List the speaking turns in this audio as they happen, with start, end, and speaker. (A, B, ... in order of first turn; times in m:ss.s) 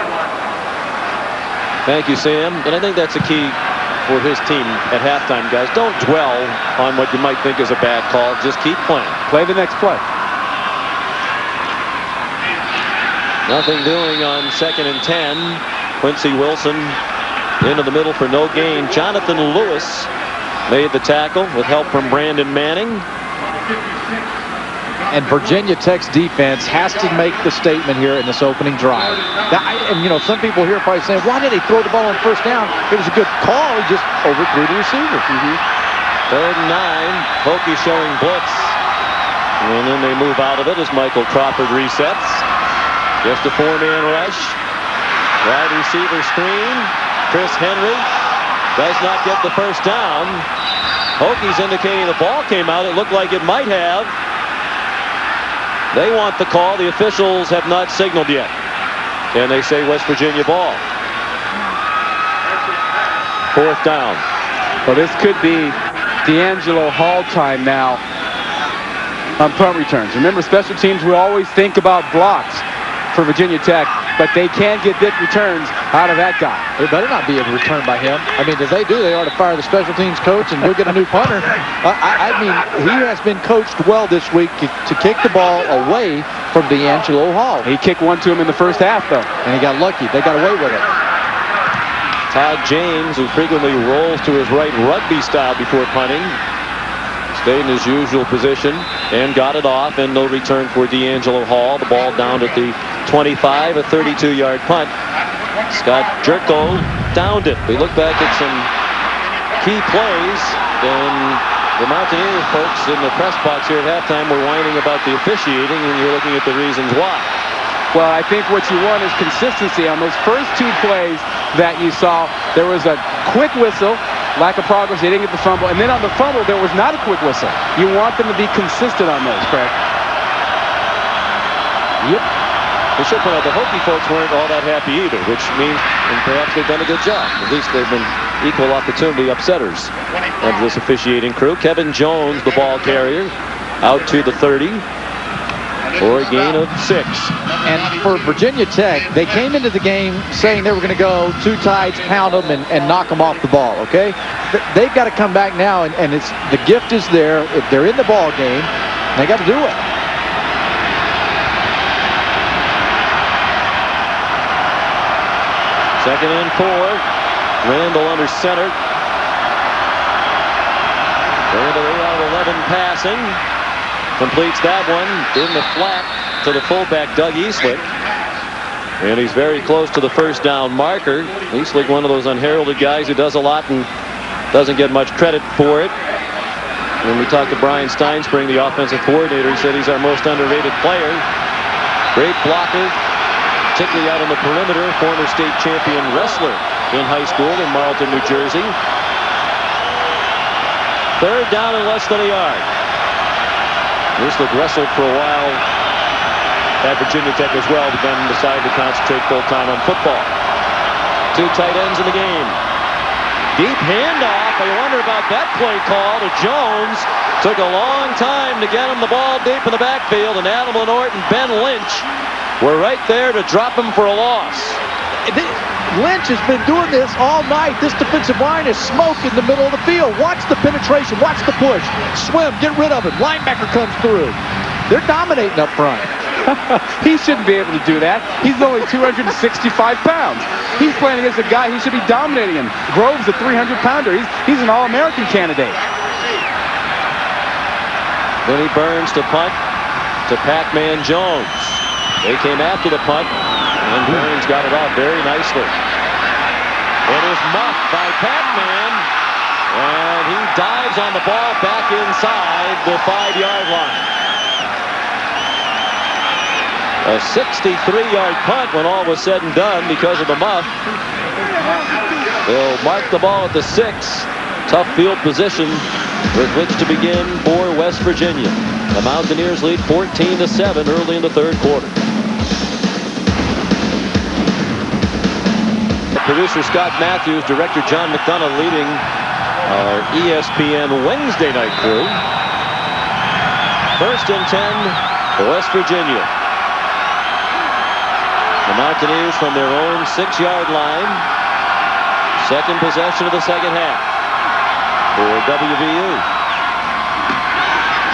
0:01.8-0:09.2 A
0:09.3-0:10.0 B
0:13.5-0:17.0 A
0:17.6-0:20.1 A
0:20.7-0:23.1 A
0:25.1-0:35.2 C
0:35.3-0:35.6 B
0:36.3-0:38.8 A
0:39.6-0:42.5 A
0:43.2-0:44.6 A
0:45.4-0:48.1 A
0:48.8-0:50.5 A
0:51.2-0:54.1 A
0:55.9-0:58.5 A
0:59.3-1:00.8 A
1:03.5-1:04.2 A
1:04.9-1:08.0 B
1:09.4-1:16.6 B
1:16.8-1:27.7 C
1:27.6-1:29.3 B
1:29.4-1:31.0 C
1:32.3-1:36.4 A
1:37.3-1:44.9 A
1:45.7-1:48.7 A
1:49.6-1:57.3 A
1:57.9-2:09.8 B
2:13.0-2:24.8 A
2:26.0-2:27.3 A
2:27.6-2:39.8 C
2:46.0-2:47.0 A
2:47.6-2:48.8 A
2:51.5-2:53.4 A
2:54.2-2:57.9 A
2:59.0-3:03.9 A
3:04.5-3:05.9 A
3:07.0-3:11.2 A
3:12.1-3:13.0 A
3:13.7-3:18.8 A
3:21.2-3:22.7 A
3:24.2-3:25.6 A
3:26.8-3:30.3 A
3:31.3-3:32.6 A
3:33.5-3:42.1 A
3:42.6-3:44.8 A
3:45.2-3:56.1 C
3:57.0-4:05.8 B
4:08.4-4:09.6 A
4:10.3-4:13.3 A
4:13.8-4:15.7 A
4:17.1-4:19.1 A
4:19.7-4:24.1 A
4:27.0-4:30.7 A
4:32.4-4:42.0 A
4:46.1-4:49.0 A
4:49.6-4:52.2 A
4:54.0-4:56.3 A
4:58.7-5:01.2 A
5:02.4-5:04.0 A
5:05.1-5:06.2 A